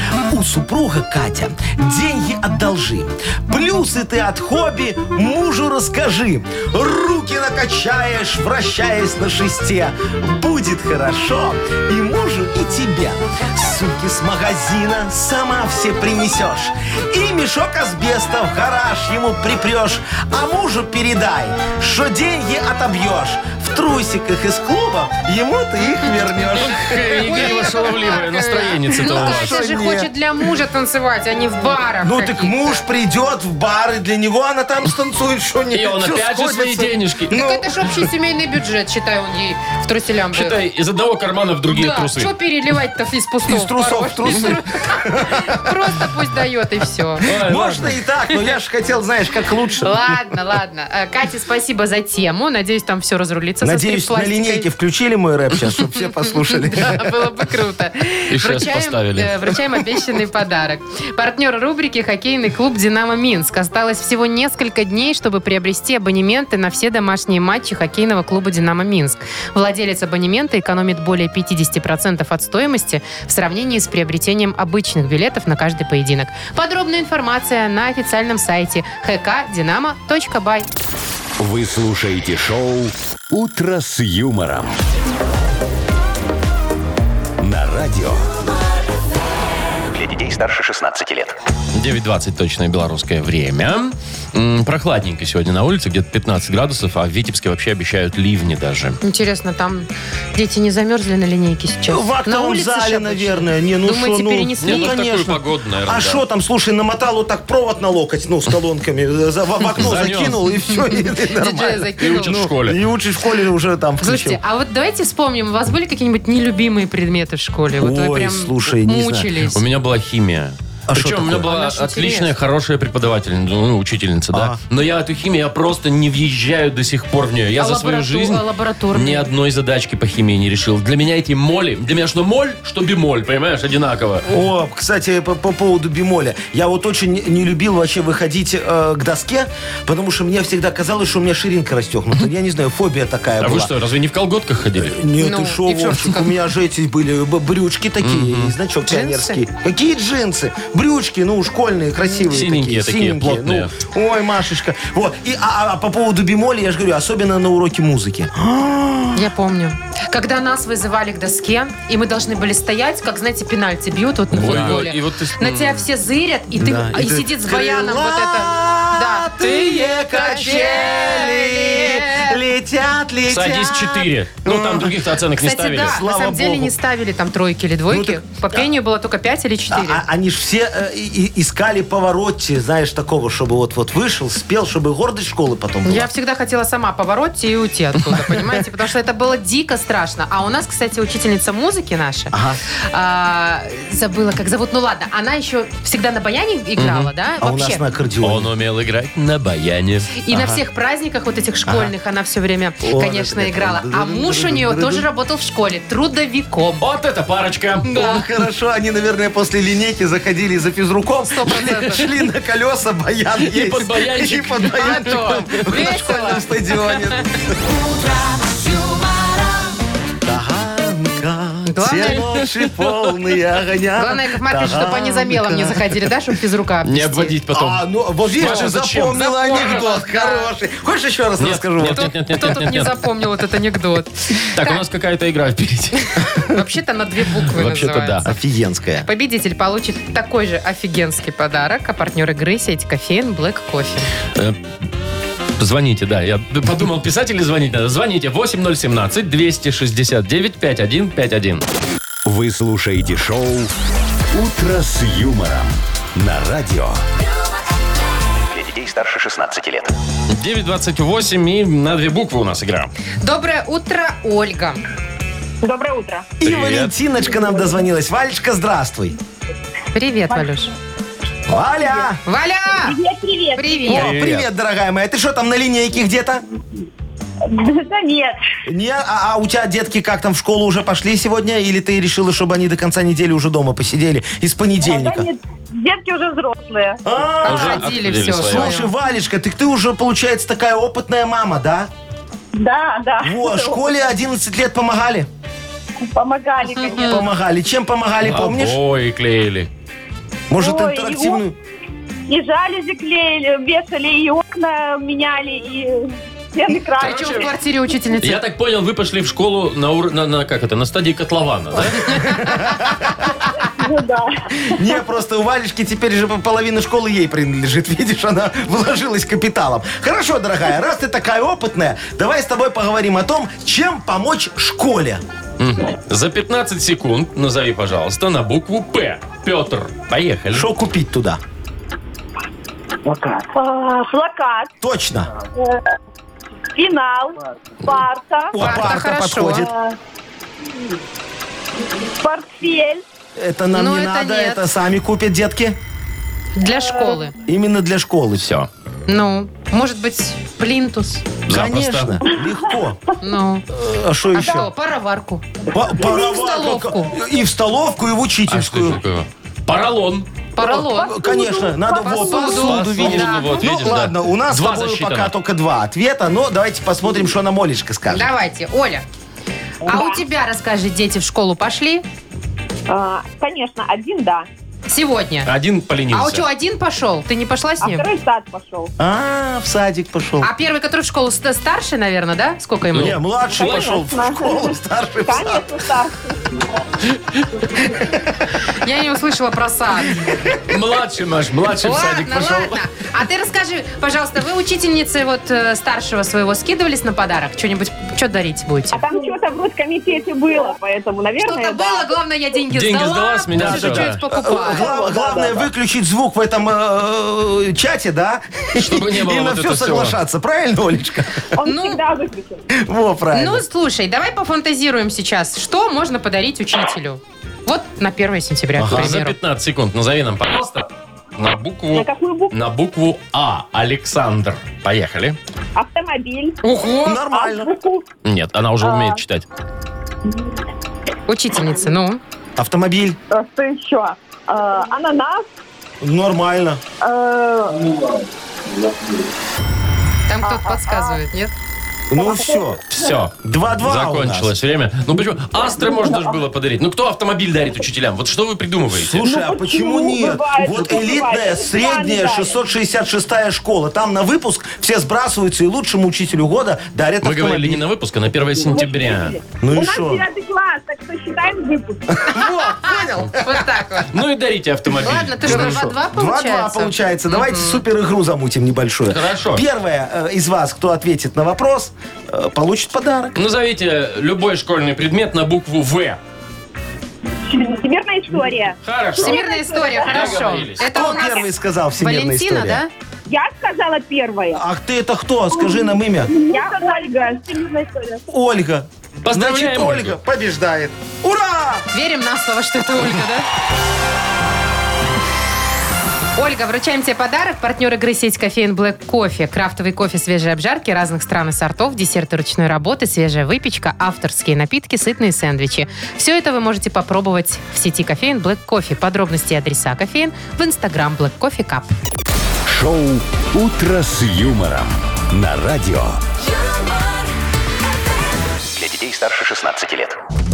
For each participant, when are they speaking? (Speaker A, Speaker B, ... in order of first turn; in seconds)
Speaker A: 0.3-27.8, 29.0-30.1, 32.0-38.1, 43.5-46.0, 47.2-50.2, 53.6-57.1, 101.9-114.4, 117.8-119.3, 120.9-121.5, 124.3-124.6, 134.2-143.7, 144.8-159.3, 164.3-164.8, 166.6-175.1, 175.7-176.7, 177.9-178.7, 179.7-186.1, 188.0-188.6, 192.3-192.6, 197.4-198.5, 200.3-200.6, 201.7-201.9, 202.8-205.1, 207.8-217.7, 220.2-226.1, 227.5-232.1, 238.2-239.1, 266.4-269.2, 271.5-272.2, 273.9-276.4, 278.7-285.3, 287.0-291.9, 293.2-295.3, 297.0-298.8, 300.5-301.6, 312.2-313.3, 314.7-325.2, 330.5-331.4, 334.8-335.3, 338.5-339.7, 343.4-345.8, 347.4-348.5, 351.5-353.0, 353.7-354.7, 355.7-359.0, 360.6-368.3, 379.0-380.5, 382.9-385.8, 387.8-388.2, 390.2-390.7, 403.5-411.5, 412.7-413.6, 418.7-419.2, 427.0-427.7, 432.6-433.2, 436.0-436.8, 442.1-442.8, 443.4-444.5, 448.9-457.8, 459.6-460.2, 462.1-463.7, 465.4-473.4, 480.8-482.8, 484.5-486.3, 488.3-491.9
Speaker B: 26.6-29.6, 35.7-37.4, 40.3-42.3, 47.2-47.9, 58.3-59.4, 91.7-99.0, 104.6-106.2, 109.8-110.4, 112.0-112.8, 119.5-134.3, 143.4-145.0, 148.0-148.5, 152.3-153.7, 164.3-165.8, 173.3-176.0, 196.8-197.1, 198.2-200.1, 206.8-208.0, 213.4-215.5, 226.8-229.2, 231.4-233.0, 234.4-236.2, 237.4-238.3, 245.6-251.6, 260.3-262.9, 266.4-266.9, 273.9-274.5, 287.4-288.8, 298.2-299.7, 307.0-307.5, 308.2-312.2, 325.6-330.7, 348.4-348.7, 351.4-352.2, 358.5-360.3, 362.3-365.3, 375.4-376.4, 382.9-384.0, 387.1-387.4, 390.7-392.8, 402.7-404.2, 408.8-410.2, 418.9-425.4, 428.2-429.4, 442.9-449.3, 457.2-459.4, 464.1-465.9, 469.1-469.6, 473.4-476.2, 478.8-479.4, 480.1-480.8, 489.2-490.2
Speaker C: 27.1-32.8, 37.3-40.6, 41.7-47.3, 49.8-54.7, 56.2-80.7, 99.0-105.0, 110.9-112.4, 114.0-119.6, 121.4-122.3, 127.6-129.3, 145.2-146.3, 148.9-149.4, 159.1-172.4, 175.3-180.0, 185.8-197.8, 200.2-206.8, 207.9-208.2, 211.2-212.0, 214.8-217.0, 221.7-222.2, 224.0-227.3, 228.4-230.5, 231.9-234.8, 236.2-238.3, 239.0-244.1, 263.2-264.8, 269.9-270.7, 272.2-273.0, 273.5-274.1, 287.4-288.9, 296.7-297.2, 307.0-308.4, 312.1-312.6, 338.6-339.7, 343.7-344.7, 346.5-347.4, 349.1-351.3, 353.2-353.6, 354.3-357.1, 360.5-364.0, 368.1-369.0, 369.9-372.0, 374.9-375.5, 376.1-378.1, 380.4-383.2, 388.6-390.3, 391.8-399.0, 401.4-404.9, 411.6-412.0, 413.3-419.4, 426.6-427.2, 431.3-432.2, 440.3-441.5, 462.3-464.1, 465.0-467.8, 479.2-482.9, 491.9-493.4, 496.4-511.9
Speaker D: 81.4-84.8, 87.4-88.2, 252.2-253.7, 254.3-257.0, 512.6-516.2
Speaker E: 89.9-91.4, 258.5-259.9, 518.7-520.2
Speaker F: 265.6-266.3, 271.8-272.1, 272.8-273.9, 277.4-278.4, 284.8-287.0, 292.5-293.9, 296.0-297.2, 300.6-301.4, 302.3-307.5, 313.5-314.9, 333.5-334.7, 335.5-335.8, 336.7-338.6, 339.6-339.9, 342.0-343.0, 346.8-347.2, 360.7-362.2, 369.9-370.2, 372.9-374.5, 377.8-378.9, 383.5-386.7, 398.9-402.1, 404.6-405.7, 411.5-412.7, 421.9-422.5, 425.8-428.1, 428.8-429.2, 433.3-435.5, 437.0-438.1, 440.4-441.2, 442.1-443.1, 445.8-446.4, 449.2-452.6, 458.6-462.4, 477.4-480.6, 483.3-484.6, 485.5-488.2